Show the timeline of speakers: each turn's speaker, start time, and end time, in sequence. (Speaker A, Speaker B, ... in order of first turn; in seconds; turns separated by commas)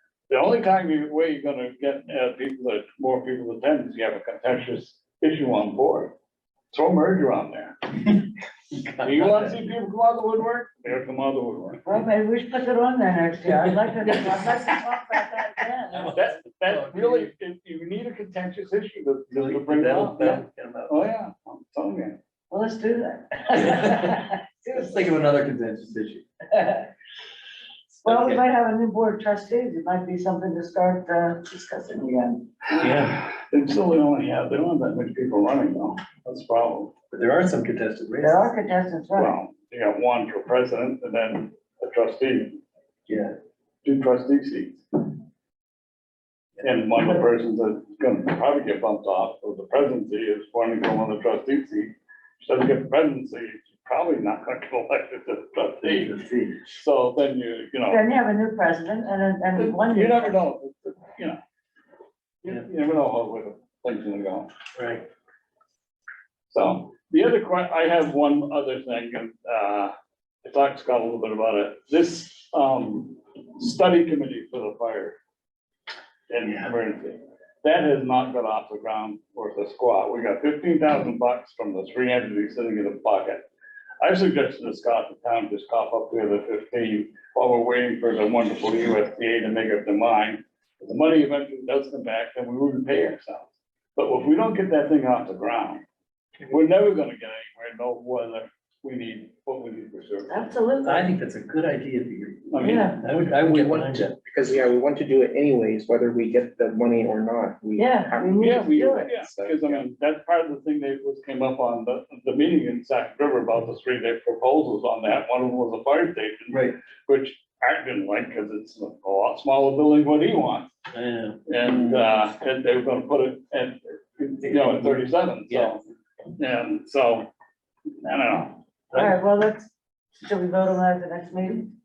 Speaker A: 0.3-6.2, Speaker A: 6.7-8.2, Speaker B: 8.7-9.6, Speaker A: 9.0-11.9, Speaker C: 11.8-16.1, Speaker B: 14.1-14.4, Speaker B: 15.9-17.3, Speaker A: 16.1-22.2, Speaker B: 19.3-21.1, Speaker C: 22.5-25.0, Speaker B: 23.5-24.2, Speaker B: 24.7-26.2, Speaker C: 26.5-26.9, Speaker B: 28.0-28.4, Speaker C: 28.0-32.5, Speaker A: 32.7-36.9, Speaker B: 32.8-33.2, Speaker B: 37.1-38.5, Speaker C: 38.2-39.4, Speaker A: 39.1-42.6, Speaker B: 43.1-43.3, Speaker A: 43.9-45.0, Speaker A: 46.6-56.1, Speaker B: 55.8-56.6, Speaker A: 56.6-58.0, Speaker C: 57.9-60.4, Speaker A: 59.6-61.4, Speaker A: 62.4-64.5, Speaker B: 64.8-65.0, Speaker A: 66.5-75.2, Speaker A: 76.3-83.5, Speaker A: 84.0-95.8, Speaker A: 96.5-100.3, Speaker C: 100.3-101.1, Speaker B: 100.8-104.2, Speaker A: 102.5-102.9, Speaker C: 102.6-103.0, Speaker D: 103.4-109.9, Speaker C: 107.8-109.2, Speaker A: 108.4-120.7, Speaker B: 116.5-116.8, Speaker B: 120.9-122.0, Speaker A: 121.5-125.8, Speaker B: 124.4-125.8, Speaker A: 126.4-127.3, Speaker A: 128.0-128.6, Speaker C: 128.9-129.7, Speaker C: 130.2-131.7